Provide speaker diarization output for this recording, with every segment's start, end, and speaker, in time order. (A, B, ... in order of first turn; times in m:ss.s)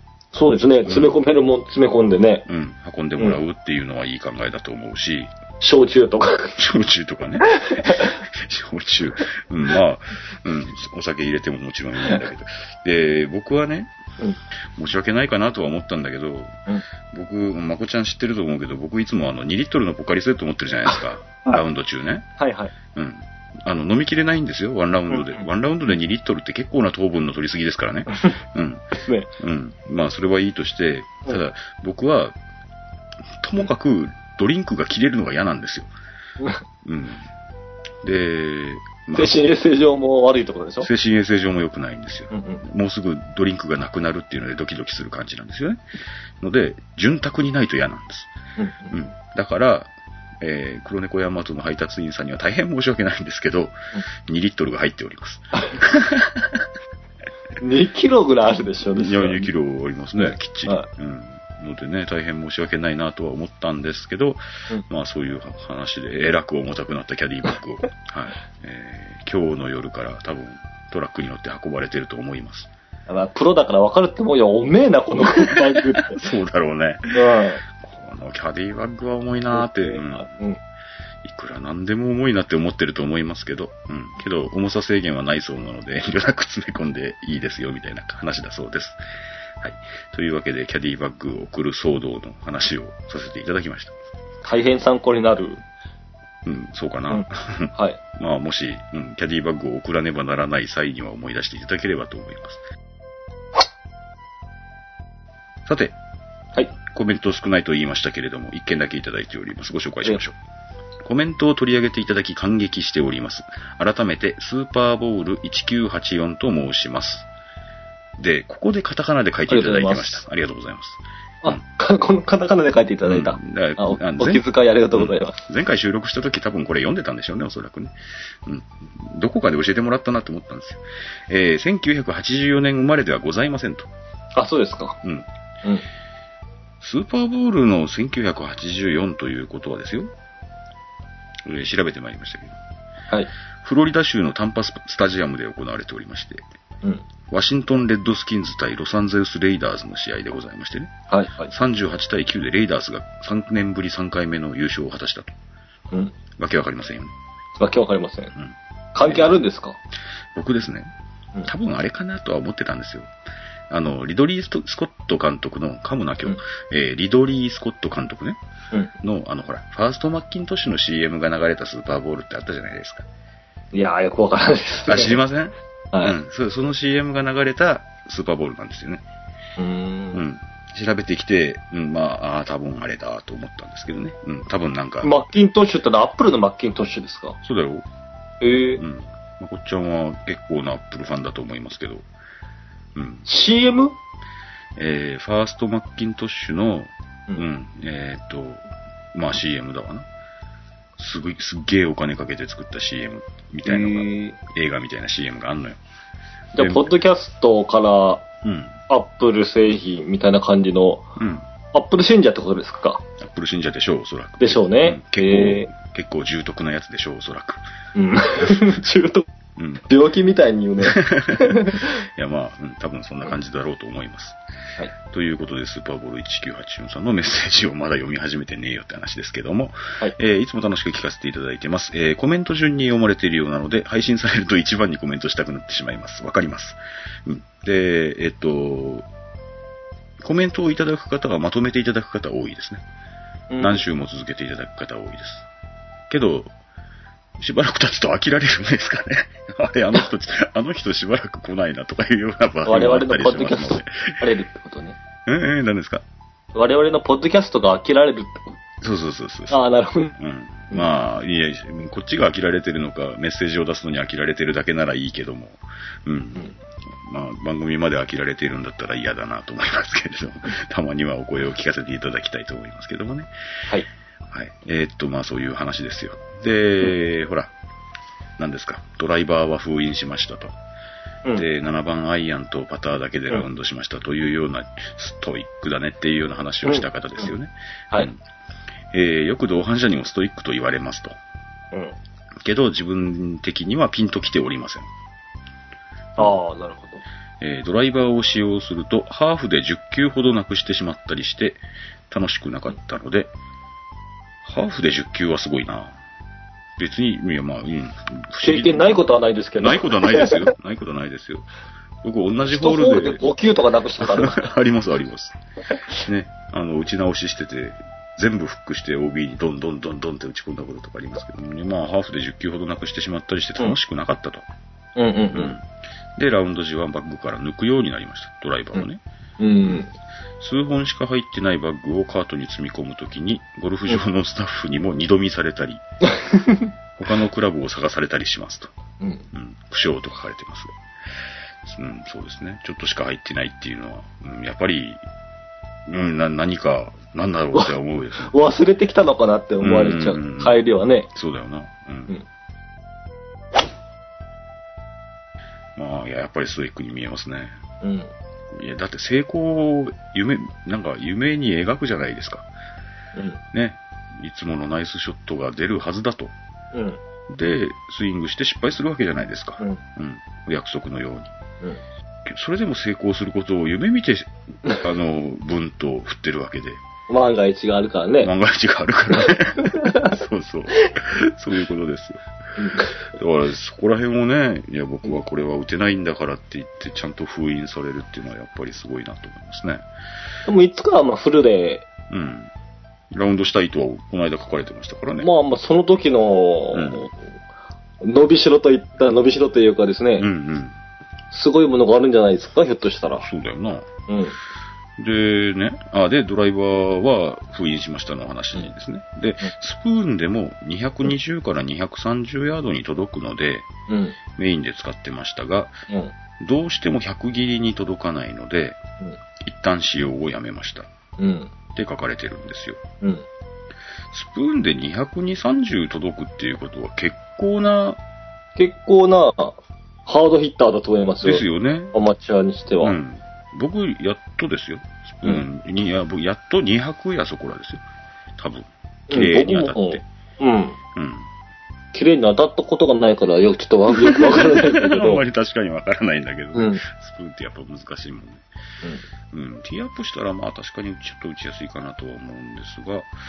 0:00.3-0:02.4 A
0:00.9-0:01.2 B
0:02.5-0:05.3 B
0:05.6-0:06.6 A
0:06.6-0:13.9 B
0:07.5-0:08.2 A
0:14.8-0:16.6 B
0:17.1-0:22.3 B
0:22.4-0:22.7 A
0:22.9-0:32.4 B
0:25.1-0:25.4 A
0:28.1-0:28.4 A
0:28.9-0:29.3 A
0:33.4-0:35.9 B
0:36.8-0:37.3 B
0:38.0-0:39.4 B
0:39.2-0:40.9 A
0:40.8-0:45.8 B
0:42.3-0:42.6 A
0:46.4-0:48.3 B
0:48.6-0:48.9 A
0:48.9-0:56.7 B
0:57.6-0:59.5 A
0:58.9-1:12.7 B
1:00.1-1:00.9 A
1:13.1-1:16.2 A
1:15.2-1:17.2 B
1:17.1-1:17.6 A
1:17.7-1:20.3 B
1:19.5-1:20.6 A
1:21.2-1:29.0 B
1:29.6-1:34.0 B
1:34.4-1:35.6 A
1:36.4-1:42.6 B
1:37.1-1:38.0 A
1:45.7-1:46.0 B
1:46.8-1:50.4 B
1:51.0-1:57.3 B
1:58.2-2:01.6 B
1:59.5-2:00.2 A
2:01.4-2:05.4 A
2:03.0-2:13.9 B
2:14.4-2:15.0 A
2:16.8-2:20.1 B
2:21.5-2:22.6 B
2:23.6-2:26.4 B
2:27.3-2:30.9 B
2:31.1-2:31.5 A
2:31.5-2:35.3 B
2:36.4-2:37.1 B
2:37.6-2:38.3 A
2:38.4-2:39.4 B
2:39.0-2:39.8 A
2:40.3-2:40.9 B
2:41.4-2:43.1 B
2:43.7-2:48.4 B
2:49.0-2:53.1 B
2:53.7-2:55.2 A
2:54.9-2:59.0 B
2:59.6-3:00.2 A
3:00.1-3:05.2 B
3:05.0-3:07.4 A
3:07.4-3:07.9 B
3:08.4-3:08.8 A
3:08.8-3:12.0 B
3:13.0-3:13.3 B
3:13.3-3:14.0 A
3:14.8-3:20.1 B
3:21.0-3:25.8 B
3:23.6-3:24.4 A
3:26.6-3:28.2 A
3:26.6-3:26.9 B
3:28.4-3:28.8 B
3:28.9-3:31.1 A
3:31.2-3:31.5 B
3:31.7-3:33.0 A
3:33.2-3:37.6 B
3:34.4-3:35.7 A
3:38.0-3:39.3 A
3:39.6-3:39.8 B
3:39.9-3:42.0 A
3:40.8-3:44.4 B
3:45.1-3:59.1 B
4:00.2-4:02.8 B
4:03.5-4:03.8 A
4:03.6-4:05.5 B
4:06.1-4:06.5 B
4:07.4-4:14.2 B
4:12.7-4:15.0 A
4:15.3-4:16.0 B
4:16.6-4:18.6 A
4:18.8-4:19.6 B
4:19.5-4:20.1 A
4:20.2-4:33.3 B
4:34.3-4:37.5 B
4:38.4-4:40.5 B
4:41.4-4:48.2 B
4:46.7-4:47.3 A
4:48.9-4:51.2 B
4:52.4-4:54.9 B
4:56.2-4:57.0 A
4:57.4-5:03.3 B
5:04.4-5:06.0 B
5:06.8-5:11.5 B
5:08.4-5:10.5 A
5:12.0-5:13.2 B
5:12.5-5:14.5 A
5:14.0-5:15.4 B
5:16.0-5:24.5 B
5:25.0-5:25.6 A
5:25.3-5:29.0 B
5:29.4-5:29.9 A
5:30.4-5:35.8 B
5:36.1-5:36.7 A
5:37.0-5:38.7 B
5:39.0-5:39.3 A
5:39.3-5:40.7 B
5:41.6-5:45.0 B
5:45.9-5:48.3 B
5:47.6-5:51.1 A
5:49.6-5:50.6 B
5:51.1-5:52.1 B
5:55.8-5:57.6 B
5:57.8-5:58.1 A
5:58.5-6:02.5 B
6:03.2-6:03.4 A
6:03.5-6:06.3 B
6:06.7-6:07.0 A
6:07.3-6:11.3 B
6:12.3-6:16.8 B
6:17.1-6:18.3 A
6:18.2-6:22.2 B
6:19.6-6:20.1 A
6:22.6-6:23.0 A
6:23.0-6:29.8 B
6:30.5-6:31.8 A
6:32.1-6:32.5 B
6:33.1-6:35.3 B
6:35.2-6:37.2 A
6:36.7-6:37.1 B
6:38.0-6:40.3 A
6:40.2-6:40.8 B
6:41.3-6:43.2 A
6:43.2-6:43.9 B
6:44.1-6:44.4 A
6:45.0-6:53.7 B
6:53.9-6:54.2 A
6:54.4-6:55.8 B
6:56.4-6:58.8 B
6:59.4-7:00.9 B
7:01.2-7:01.5 A
7:01.7-7:02.8 B
7:03.0-7:03.3 A
7:04.1-7:08.0 B
7:08.6-7:13.0 A
7:11.2-7:12.0 B
7:12.8-7:17.8 B
7:18.4-7:20.0 B
7:19.1-7:20.8 A
7:21.0-7:21.3 B
7:21.9-7:25.2 A
7:23.9-7:28.4 B
7:26.6-7:26.8 A
7:29.3-7:33.1 B